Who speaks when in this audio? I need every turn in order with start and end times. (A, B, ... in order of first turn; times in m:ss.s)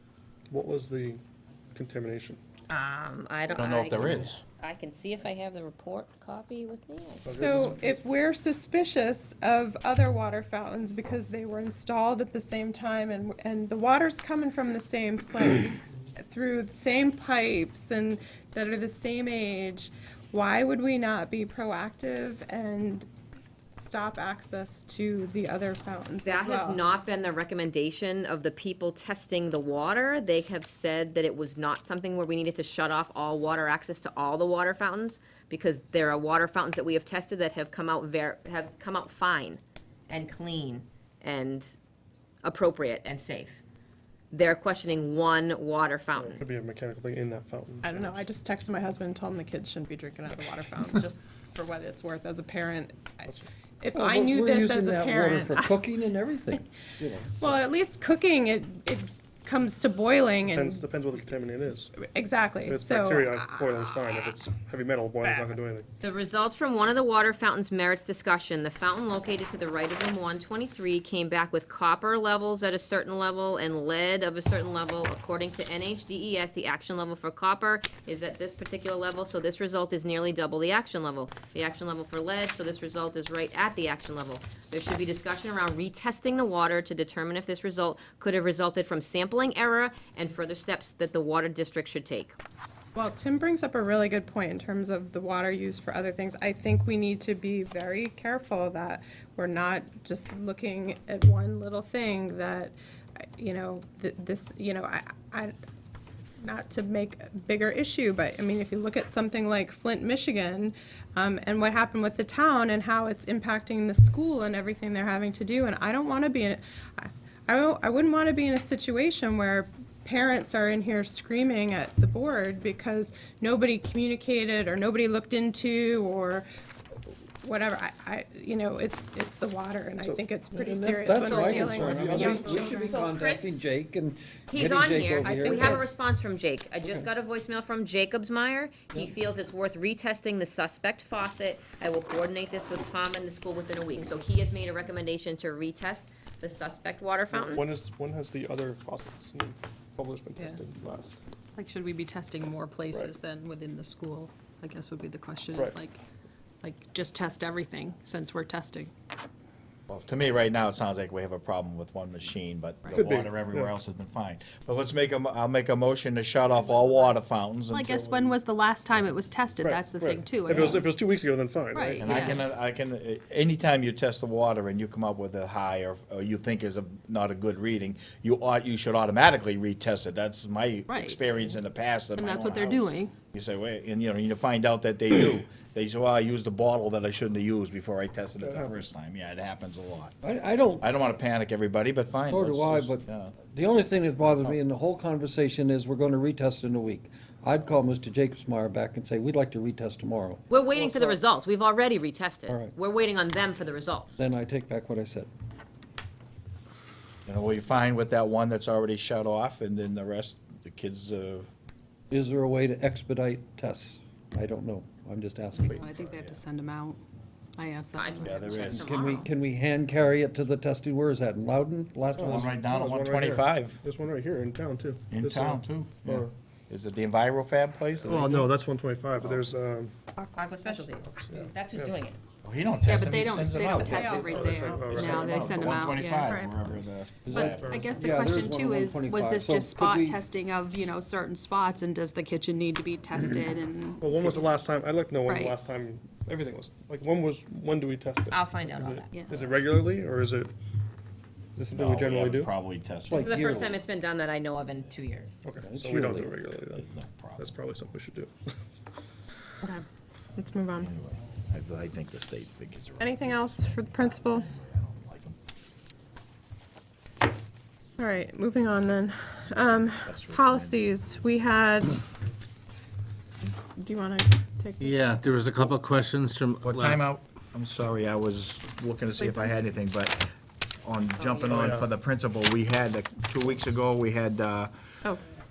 0:00.5-0:01.2 A
0:01.7-0:02.4 A
0:02.7-0:07.5 B
0:03.6-0:04.4 C
0:07.2-0:07.8 A
0:07.3-0:23.1 D
0:23.7-0:26.8 D
0:26.2-0:41.8 B
0:42.4-0:43.6 B
0:44.3-0:46.4 B
0:46.2-0:48.2 A
0:47.8-0:55.8 D
0:53.9-0:57.6 E
0:57.4-1:00.8 D
1:00.5-1:02.0 A
1:02.0-1:03.8 D
1:02.6-1:05.9 A
1:06.0-1:32.4 B
1:33.0-1:45.6 D
1:46.4-2:06.5 D
2:07.1-2:13.0 D
2:10.5-2:15.9 E
2:11.2-2:11.6 B
2:11.6-2:12.7 A
2:12.4-2:13.7 B
2:14.5-2:27.6 B
2:15.2-2:16.0 D
2:16.8-2:17.1 E
2:27.3-2:31.2 A
2:31.6-2:36.0 F
2:36.6-2:38.9 F
2:39.9-2:48.0 C
2:42.9-2:43.7 A
2:47.7-2:50.9 F
2:48.0-2:48.3 A
2:49.6-2:52.4 A
2:51.7-2:52.4 F
2:52.0-3:10.2 C
3:00.9-3:01.2 F
3:02.2-3:03.1 F
3:08.4-3:08.8 A
3:10.2-3:10.9 E
3:10.8-3:13.4 C
3:12.3-3:21.1 E
3:20.5-3:24.2 B
3:22.5-3:22.7 E
3:24.2-3:25.3 E
3:27.3-3:31.5 C
3:32.1-3:35.8 E
3:35.6-3:37.0 F
3:35.6-3:36.4 C
3:37.6-3:38.5 F
3:38.0-3:39.3 B
3:38.2-3:39.0 C
3:38.7-3:42.6 E
3:42.2-3:46.3 A
3:42.2-3:43.8 C
3:45.1-3:48.5 C
3:48.0-3:49.9 A
3:50.2-3:50.9 D
3:50.3-3:52.2 B
3:51.1-3:52.0 A
3:52.4-3:58.0 C
3:52.8-3:56.5 F
3:53.8-3:54.7 D
3:53.9-3:55.7 A
3:56.2-3:56.5 D
3:57.3-4:00.2 E
3:57.3-4:04.3 F
3:57.4-3:58.1 A
4:04.0-4:10.5 A
4:05.2-4:05.6 F
4:08.3-4:09.1 B
4:09.1-4:09.4 F
4:11.6-4:12.5 A
4:11.7-4:13.8 C
4:13.0-4:13.8 E
4:13.1-4:15.3 B
4:15.4-4:18.5 A
4:15.6-4:16.4 E
4:16.7-4:17.6 C
4:20.4-4:20.9 D
4:20.8-4:25.4 C
4:23.0-4:24.5 D
4:28.0-4:32.0 D
4:30.0-4:30.8 C
4:33.7-4:35.2 D
4:34.8-4:37.0 G
4:36.6-4:40.2 C
4:39.2-4:39.6 D
4:40.8-4:44.7 C
4:41.2-4:41.8 B
4:41.5-4:41.9 A